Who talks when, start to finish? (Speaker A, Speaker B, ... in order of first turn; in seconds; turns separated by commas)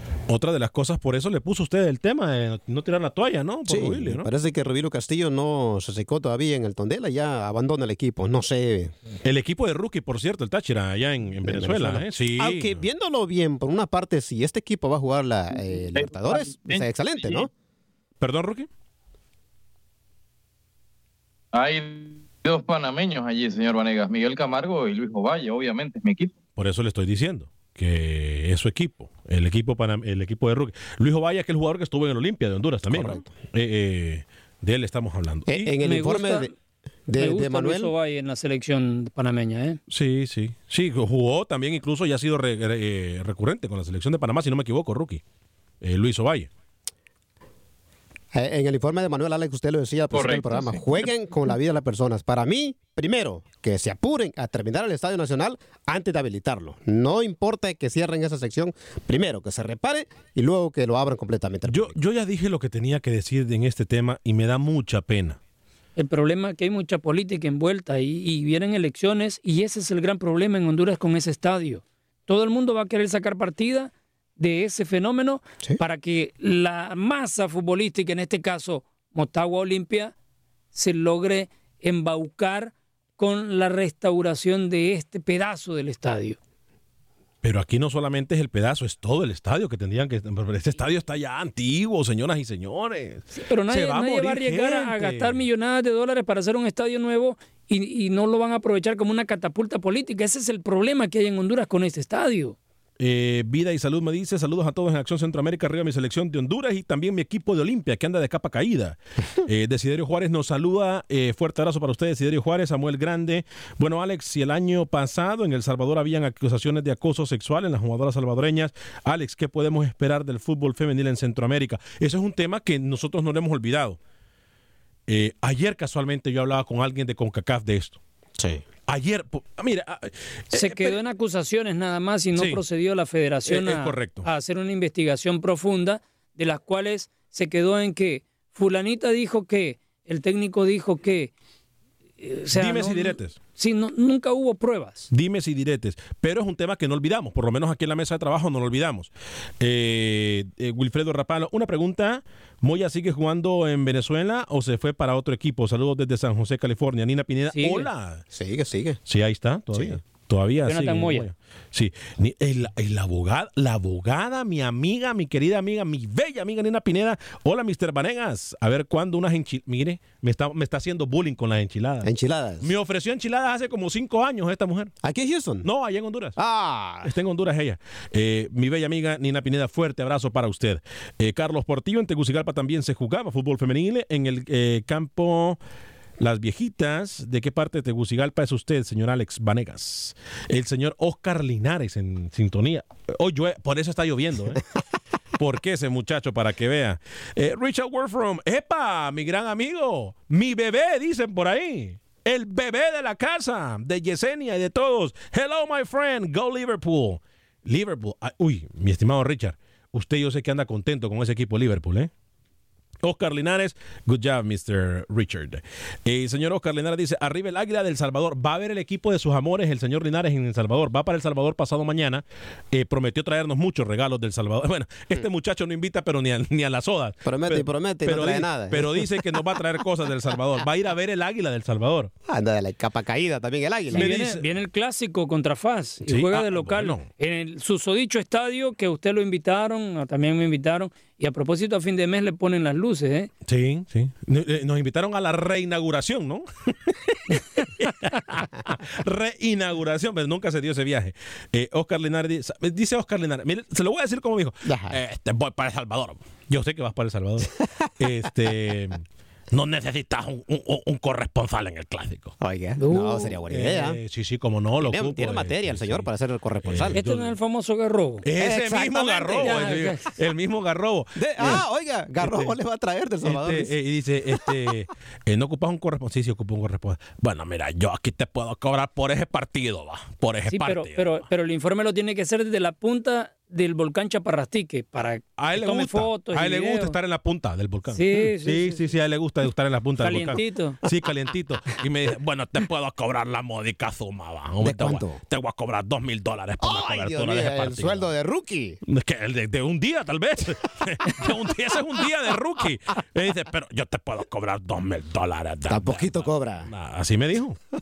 Speaker A: 0.3-4.3, Speaker B: 3.7-8.9, Speaker A: 9.2-12.8, Speaker B: 11.4-17.5, Speaker C: 15.9-17.5, Speaker A: 18.2-18.7, Speaker C: 21.5-26.3, Speaker A: 26.6-35.7, Speaker B: 32.9-33.2, Speaker B: 35.5-36.5, Speaker D: 35.8-36.5, Speaker B: 37.1-37.9, Speaker D: 37.2-39.8, Speaker A: 39.9-45.2, Speaker A: 45.8-46.5, Speaker B: 48.3-62.0, Speaker C: 50.1-51.0, Speaker A: 61.7-65.4, Speaker D: 66.0-80.1, Speaker D: 80.7-86.4, Speaker A: 87.4-95.4, Speaker D: 93.3-102.6, Speaker A: 103.0-124.0, Speaker A: 125.1-128.0, Speaker B: 128.4-128.6, Speaker A: 128.9-131.0, Speaker D: 130.5-141.3, Speaker A: 132.3-132.6, Speaker A: 133.5-134.2, Speaker D: 142.2-145.1, Speaker A: 142.6-143.4, Speaker A: 145.1-158.2, Speaker D: 157.5-157.9, Speaker B: 158.3-159.0, Speaker A: 159.1-172.1, Speaker B: 159.7-160.0, Speaker D: 160.7-161.3, Speaker B: 172.0-172.7, Speaker A: 172.6-174.9, Speaker B: 175.0-175.7, Speaker A: 175.6-176.4, Speaker B: 176.4-177.1, Speaker A: 177.0-185.6, Speaker A: 186.2-194.6, Speaker A: 195.4-212.1, Speaker A: 213.0-232.1, Speaker B: 227.2-229.5, Speaker B: 232.3-234.1, Speaker D: 233.9-243.3, Speaker A: 233.9-234.4, Speaker A: 236.1-237.1, Speaker A: 243.4-262.3, Speaker B: 254.7-255.0, Speaker B: 262.4-264.0, Speaker D: 262.8-263.4, Speaker A: 263.5-266.1, Speaker B: 264.8-267.0, Speaker A: 266.6-267.4, Speaker D: 266.9-268.2, Speaker A: 268.2-271.6, Speaker B: 268.4-269.7, Speaker D: 269.4-270.0, Speaker B: 271.2-273.7, Speaker A: 272.2-272.5, Speaker A: 273.2-281.2, Speaker D: 280.5-287.0, Speaker A: 285.4-298.1, Speaker D: 287.9-288.8, Speaker D: 290.0-290.8, Speaker B: 294.6-295.2, Speaker B: 296.6-298.8, Speaker A: 298.9-307.6, Speaker B: 305.7-306.7